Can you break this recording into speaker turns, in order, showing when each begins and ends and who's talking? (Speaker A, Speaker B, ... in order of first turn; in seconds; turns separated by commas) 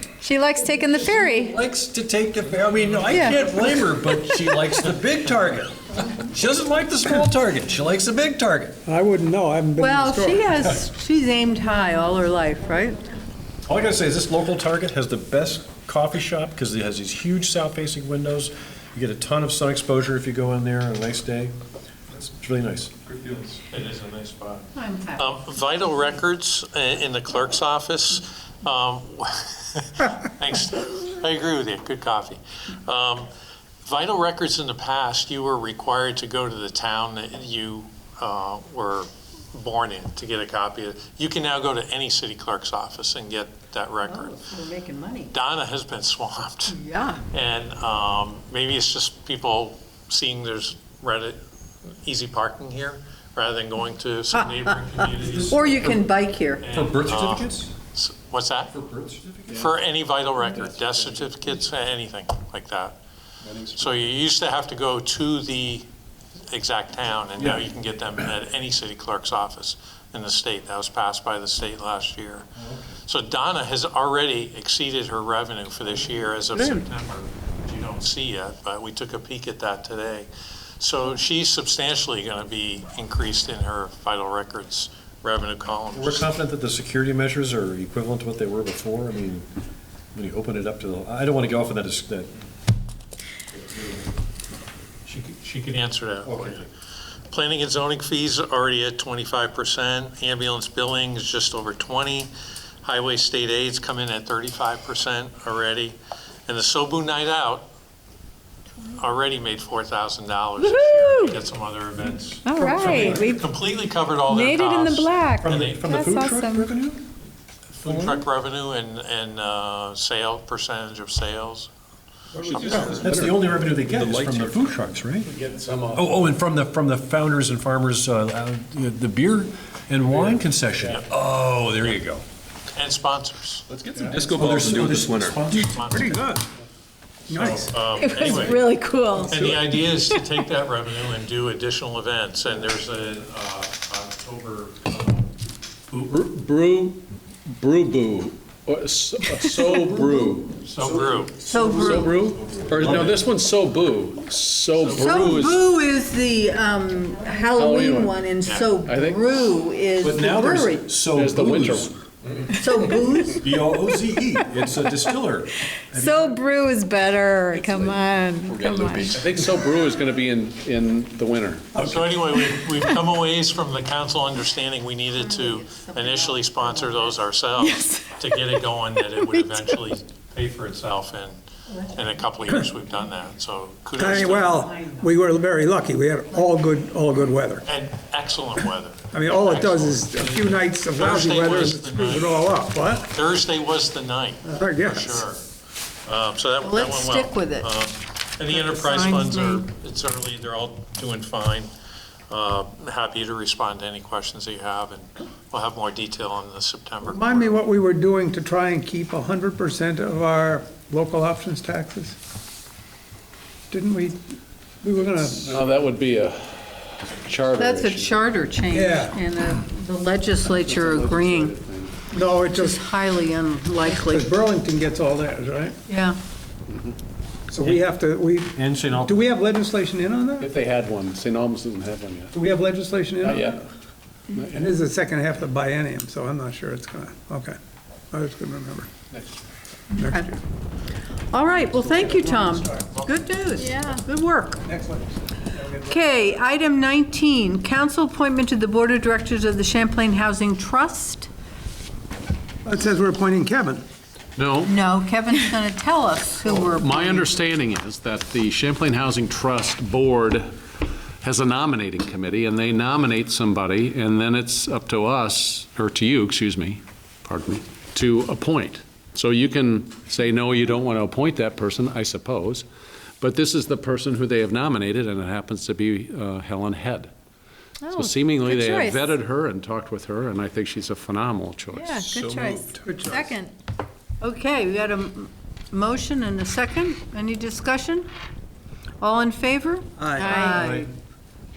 Speaker A: 0.2-1.6, Speaker B: 0.8-8.8, Speaker A: 3.1-3.4, Speaker C: 8.8-10.4, Speaker D: 9.8-13.0, Speaker B: 13.7-21.5, Speaker B: 22.1-22.9, Speaker E: 23.1-23.6, Speaker F: 23.7-33.3, Speaker D: 24.8-25.3, Speaker F: 33.8-44.4, Speaker D: 44.0-45.3, Speaker F: 45.3-46.8, Speaker D: 46.7-47.2, Speaker F: 47.3-51.4, Speaker F: 52.0-56.0, Speaker D: 54.3-56.6, Speaker B: 55.2-56.0, Speaker F: 56.6-58.7, Speaker B: 56.7-57.7, Speaker B: 58.7-59.7, Speaker F: 59.5-63.0, Speaker G: 60.5-61.2, Speaker B: 63.5-63.9, Speaker F: 63.8-65.9, Speaker F: 66.5-72.5, Speaker B: 72.6-72.9, Speaker F: 73.0-80.3, Speaker D: 76.5-76.8, Speaker F: 80.8-86.3, Speaker B: 85.9-89.5, Speaker B: 90.1-92.3, Speaker F: 95.0-96.7, Speaker B: 96.2-96.7, Speaker F: 97.3-102.3, Speaker F: 102.8-107.7, Speaker F: 108.9-115.8, Speaker A: 110.6-111.4, Speaker A: 112.4-113.5, Speaker B: 112.6-113.2, Speaker C: 112.8-113.1, Speaker A: 114.3-116.7, Speaker B: 115.4-117.0, Speaker F: 117.7-121.7, Speaker B: 117.8-118.2, Speaker C: 122.3-123.3, Speaker E: 122.5-124.8, Speaker F: 122.5-123.1, Speaker B: 122.7-125.3, Speaker G: 125.2-126.2, Speaker B: 125.9-132.2, Speaker F: 132.7-133.7, Speaker E: 133.7-135.5, Speaker B: 134.0-136.0, Speaker F: 135.6-136.2, Speaker C: 135.7-136.4, Speaker C: 137.3-138.4, Speaker F: 137.3-138.7, Speaker A: 138.0-139.3, Speaker F: 139.3-145.3, Speaker G: 145.9-150.6, Speaker F: 150.6-151.5, Speaker B: 150.9-151.2, Speaker D: 151.4-152.2, Speaker G: 151.7-155.6, Speaker B: 152.5-153.1, Speaker F: 154.7-155.3, Speaker D: 154.9-160.9, Speaker G: 157.5-158.2, Speaker G: 158.8-159.5, Speaker B: 160.0-161.9, Speaker G: 161.1-162.0, Speaker D: 162.6-163.5, Speaker B: 163.4-166.4, Speaker A: 165.9-169.2, Speaker G: 167.7-167.9, Speaker E: 168.5-169.6, Speaker G: 169.1-171.8, Speaker F: 171.8-184.7, Speaker D: 175.2-177.2, Speaker A: 177.6-178.2, Speaker A: 179.2-179.7, Speaker C: 184.0-187.6, Speaker D: 184.6-185.1, Speaker F: 187.6-195.4, Speaker C: 189.1-193.1, Speaker C: 194.5-195.2, Speaker F: 196.1-201.7, Speaker D: 196.6-197.7, Speaker D: 198.5-199.6, Speaker F: 202.3-207.5, Speaker C: 207.0-212.1, Speaker C: 213.7-214.2, Speaker C: 214.8-215.7, Speaker G: 215.4-218.1, Speaker D: 217.6-221.5, Speaker C: 218.7-219.2, Speaker G: 220.4-222.0, Speaker C: 222.1-222.8, Speaker D: 222.5-224.3, Speaker C: 223.8-225.8, Speaker D: 225.9-226.2, Speaker G: 226.7-227.0, Speaker C: 227.5-230.5, Speaker B: 228.5-229.2, Speaker G: 230.4-232.4, Speaker C: 232.3-233.6, Speaker G: 233.2-233.7, Speaker G: 234.3-234.7, Speaker C: 234.4-237.6, Speaker C: 238.1-238.9, Speaker G: 239.1-239.4, Speaker C: 239.9-240.4, Speaker D: 239.9-240.3, Speaker D: 241.3-244.6, Speaker C: 241.7-242.9, Speaker F: 242.8-243.6, Speaker A: 243.6-244.0, Speaker C: 244.7-246.1, Speaker D: 245.9-251.3, Speaker C: 252.6-253.8, Speaker G: 254.3-254.7, Speaker D: 254.6-257.3, Speaker G: 256.4-260.5, Speaker G: 261.2-272.6, Speaker G: 273.2-277.1, Speaker A: 277.8-279.1, Speaker G: 277.9-282.2, Speaker A: 281.7-283.5, Speaker E: 282.1-283.1, Speaker C: 282.7-283.3, Speaker D: 284.2-288.1, Speaker D: 289.0-290.9, Speaker B: 290.0-290.9, Speaker A: 290.2-290.7